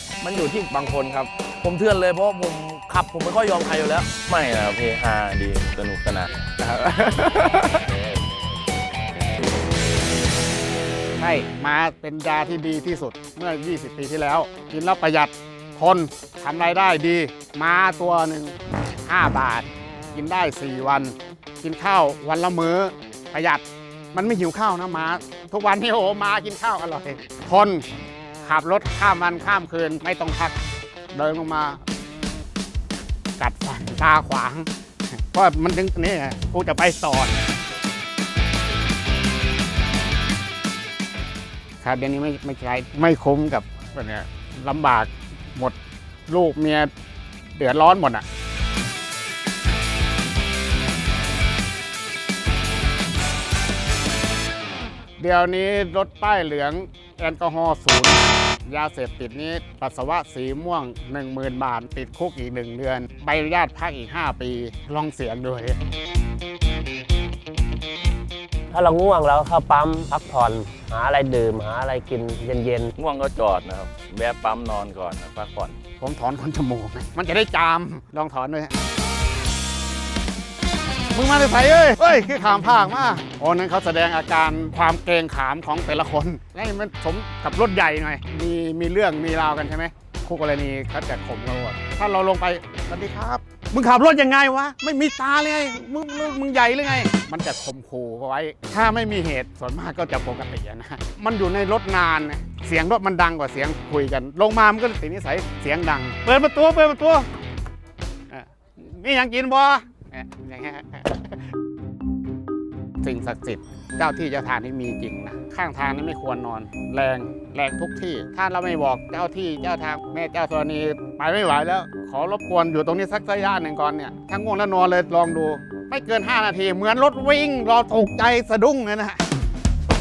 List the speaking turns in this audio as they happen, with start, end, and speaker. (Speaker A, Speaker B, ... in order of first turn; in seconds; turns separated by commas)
Speaker A: 0.2-1.3, Speaker B: 0.2-0.9, Speaker B: 1.6-4.1, Speaker C: 4.3-6.5, Speaker A: 6.6-7.7, Speaker D: 11.2-27.9, Speaker D: 28.4-30.6, Speaker D: 31.1-31.8, Speaker D: 33.4-37.5, Speaker D: 41.8-45.8, Speaker D: 46.3-46.9, Speaker D: 47.6-48.2, Speaker D: 55.2-65.8, Speaker E: 68.7-72.9, Speaker C: 73.0-75.8, Speaker D: 76.0-78.7, Speaker D: 81.1-107.3, Speaker D: 108.3-111.4, Speaker D: 113.0-129.2